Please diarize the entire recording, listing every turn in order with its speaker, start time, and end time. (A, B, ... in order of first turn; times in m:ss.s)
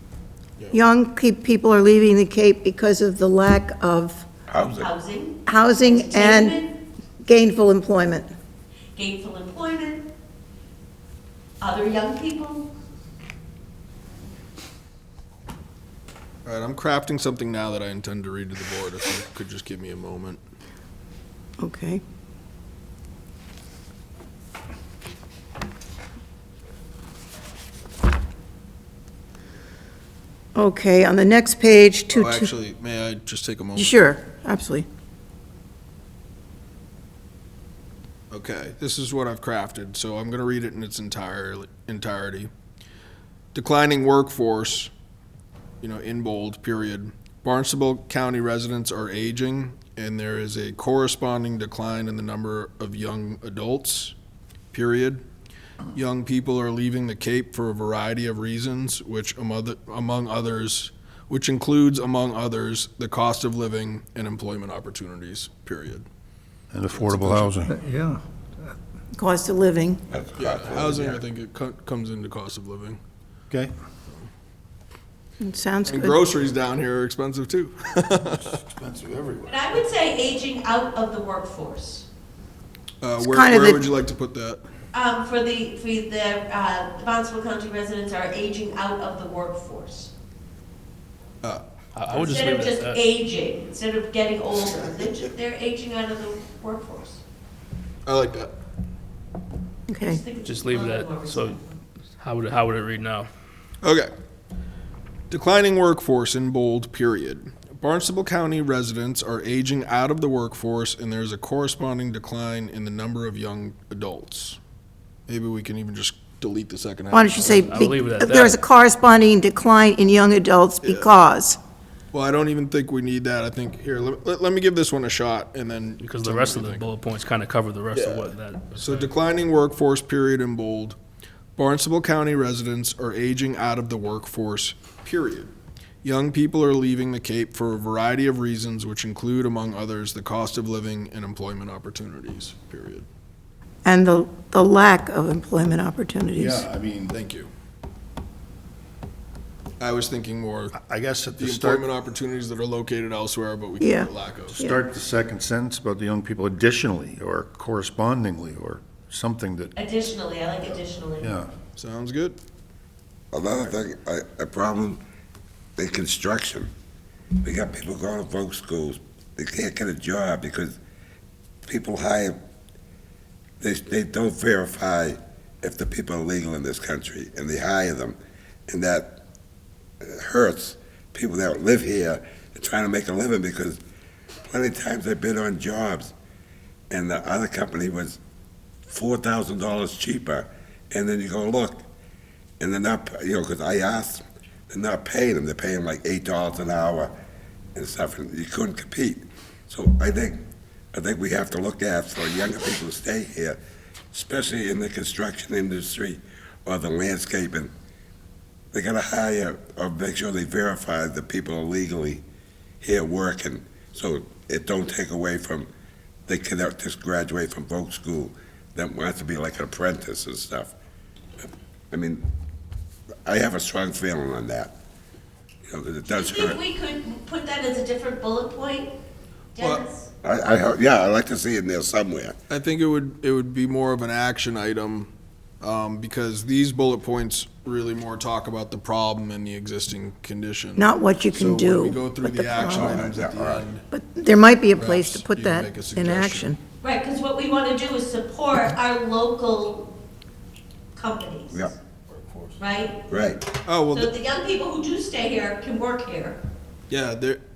0:00.7-0:04.2 A
0:04.5-0:04.9 B
0:04.7-0:06.7 C
0:05.4-0:06.6 A
0:07.2-0:08.3 A
0:08.9-0:10.0 C
0:11.6-0:12.7 C
0:16.4-0:20.4 D
0:21.6-0:22.0 A
0:30.5-0:32.5 A
0:32.1-0:34.1 D
0:33.8-0:34.8 A
0:38.3-0:42.5 D
0:43.5-0:44.9 D
0:45.8-0:54.1 D
0:54.7-0:55.2 D
0:55.9-1:06.0 D
1:06.7-1:07.9 E
1:06.9-1:07.5 D
1:09.2-1:10.0 A
1:10.1-1:11.2 B
1:10.4-1:13.0 D
1:15.4-1:16.2 A
1:15.8-1:18.6 D
1:18.5-1:19.6 E
1:19.4-1:22.0 C
1:23.0-1:24.6 D
1:23.2-1:23.8 A
1:24.9-1:30.1 C
1:31.4-1:32.2 D
1:31.9-1:33.0 F
1:32.1-1:37.2 C
1:38.0-1:38.5 D
1:39.9-1:40.2 A
1:40.0-1:41.7 C
1:40.4-1:41.6 F
1:42.2-1:43.3 F
1:43.8-1:44.1 D
1:45.3-1:54.6 D
1:55.3-1:57.9 D
1:57.1-2:01.6 A
1:57.4-1:58.6 F
2:00.8-2:01.1 D
2:02.1-2:06.9 D
2:06.0-2:09.1 F
2:07.9-2:11.0 D
2:11.6-2:15.5 D
2:16.0-2:23.0 D
2:23.8-2:26.7 A
2:26.3-2:27.1 E
2:27.1-2:27.5 D
2:29.8-2:30.7 D
2:30.7-2:31.9 E
2:31.4-2:34.6 D
2:33.8-2:34.8 A
2:34.5-2:39.7 E
2:39.7-2:41.3 C
2:41.2-2:41.5 E
2:41.8-2:42.4 D
2:43.3-2:45.0 B
2:45.8-2:46.7 B
2:47.4-2:50.8 B
2:51.6-2:52.4 B
2:53.6-2:58.2 B
2:58.7-2:59.2 B
3:00.0-3:03.8 B
3:04.4-3:06.1 B
3:06.9-3:08.2 B
3:08.8-3:11.8 B
3:12.6-3:17.1 B
3:17.7-3:20.4 B
3:20.9-3:23.6 B
3:24.1-3:27.7 B
3:28.7-3:32.2 B
3:32.8-3:35.7 B
3:36.3-3:40.7 B
3:41.4-3:42.2 B
3:43.2-3:44.7 B
3:45.6-3:46.6 B
3:46.1-3:48.9 C
3:49.5-3:50.1 C
3:50.2-3:52.4 B
3:52.5-4:03.8 D
4:00.8-4:03.0 A
4:02.6-4:03.7 B
4:03.9-4:06.6 A
4:04.8-4:06.6 D
4:06.8-4:09.9 C
4:10.9-4:11.7 C
4:12.1-4:12.5 D
4:12.6-4:13.0 C
4:13.1-4:13.4 B
4:13.6-4:14.1 D
4:13.9-4:16.4 C
4:16.9-4:17.4 D